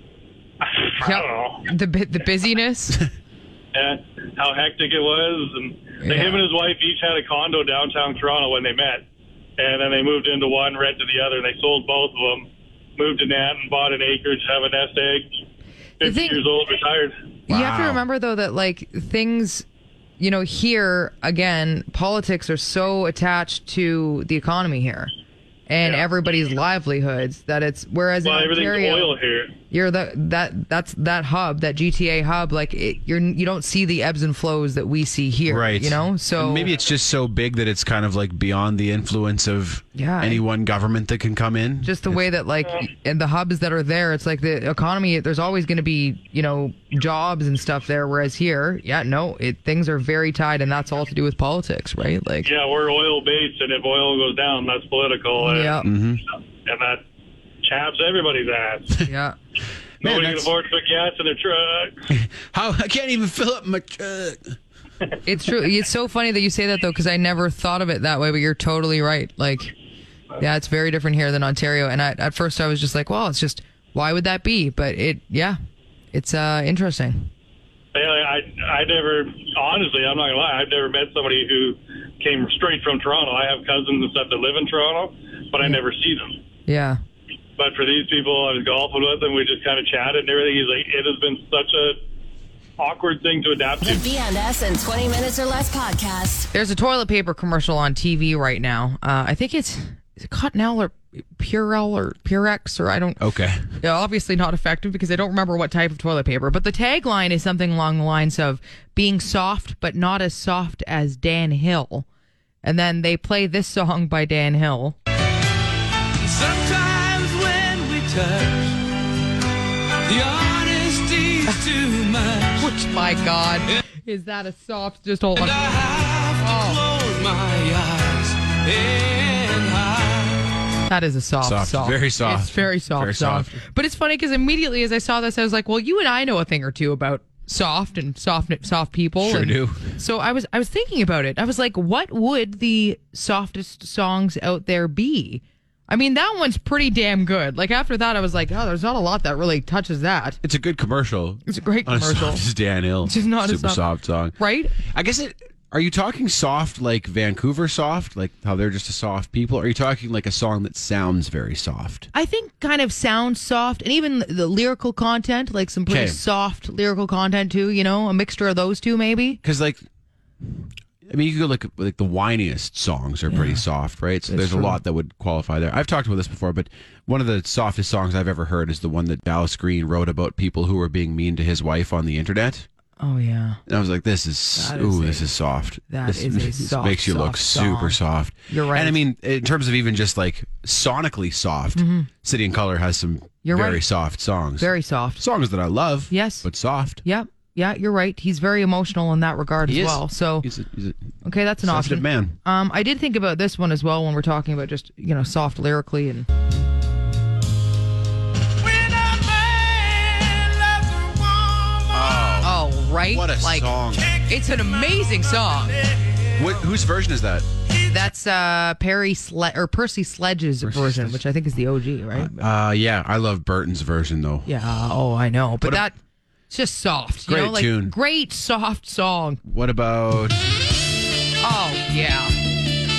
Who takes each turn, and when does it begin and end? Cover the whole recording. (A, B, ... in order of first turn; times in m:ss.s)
0:00.6-0:01.7 A
0:01.0-0:03.1 B
0:03.7-0:09.0 A
0:06.0-0:06.4 B
0:09.6-0:15.3 A
0:16.0-0:17.1 A
0:16.0-0:16.4 B
0:17.5-0:19.6 B
0:17.5-0:18.0 C
0:20.2-0:25.1 B
0:25.7-0:29.1 B
0:28.2-0:29.5 A
0:29.7-0:36.7 B
0:35.5-0:42.2 C
0:39.9-0:40.4 B
0:41.8-0:52.5 B
0:52.4-0:55.9 A
0:55.4-0:55.9 B
0:55.8-0:56.2 C
0:56.6-0:57.0 A
0:57.6-0:59.0 A
0:59.0-0:59.4 B
1:00.0-1:00.5 C
1:00.0-1:02.0 A
1:02.1-1:04.6 C
1:05.2-1:09.7 B
1:10.4-1:15.6 B
1:16.1-1:17.3 B
1:17.9-1:26.4 A
1:26.7-1:27.0 B
1:27.6-1:32.0 A
1:32.8-1:34.1 A
1:33.8-1:36.5 D
1:36.5-1:43.2 B
1:43.2-1:43.6 C
1:43.8-1:52.0 B
1:52.6-1:55.0 B
1:56.2-1:58.8 E
2:00.0-2:02.7 E
2:02.6-2:06.8 B
2:05.4-2:10.5 E
2:10.9-2:30.4 B
2:11.4-2:13.6 C
2:19.2-2:19.9 C
2:30.4-2:42.1 C
2:31.5-2:32.4 B
2:33.0-2:33.8 B
2:34.4-2:34.8 B
2:42.1-2:49.4 B
2:45.9-2:46.2 C
2:49.4-2:49.8 C
2:51.0-3:02.6 C
2:53.3-2:53.6 B
2:54.3-2:54.8 B
3:03.0-3:03.6 B
3:03.7-3:17.0 C
3:04.6-3:05.3 B
3:05.9-3:09.0 B
3:11.8-3:12.1 B
3:13.4-3:13.8 B
3:14.6-3:15.2 B
3:16.1-3:16.5 B
3:17.0-3:20.5 B
3:19.6-3:21.0 C
3:21.2-3:26.3 B
3:21.6-3:22.4 C
3:31.9-3:34.2 C
3:32.4-3:35.8 B
3:36.4-3:37.5 C
3:37.8-3:42.4 B
3:40.6-3:41.2 C
3:42.1-3:44.5 C
3:44.4-3:46.0 B
3:46.5-3:49.4 B
3:47.3-3:47.9 C
3:49.4-3:50.4 C
3:51.4-3:52.3 B